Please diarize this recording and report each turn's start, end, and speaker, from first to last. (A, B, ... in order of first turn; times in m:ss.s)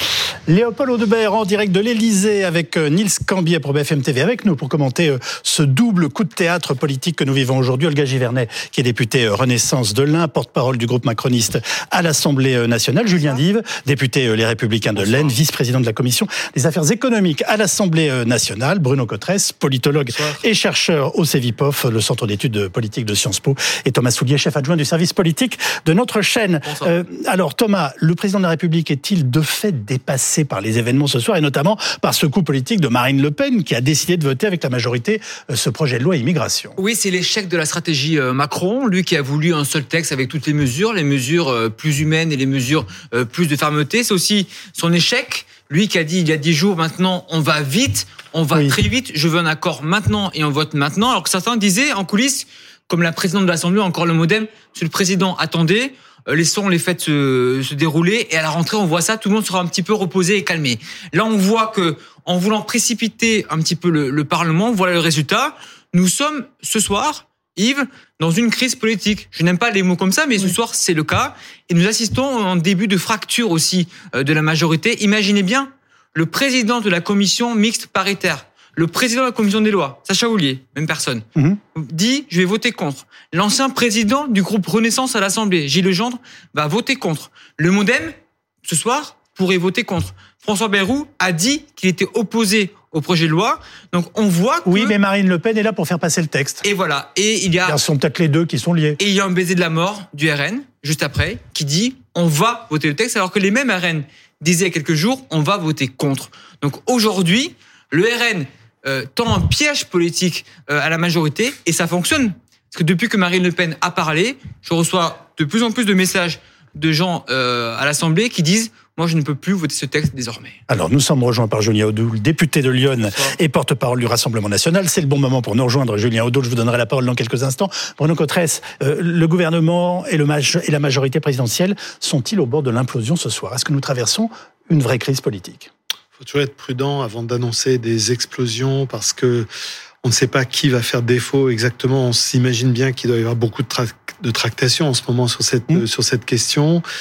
0:00.5-0:36.8 A
0:36.8-1:35.0 B
1:34.6-1:36.6 A
1:36.6-1:37.8 B
1:37.7-1:39.0 A
1:39.0-2:00.6 B
2:00.7-2:15.7 A
2:16.2-2:19.5 C
2:20.0-2:26.8 C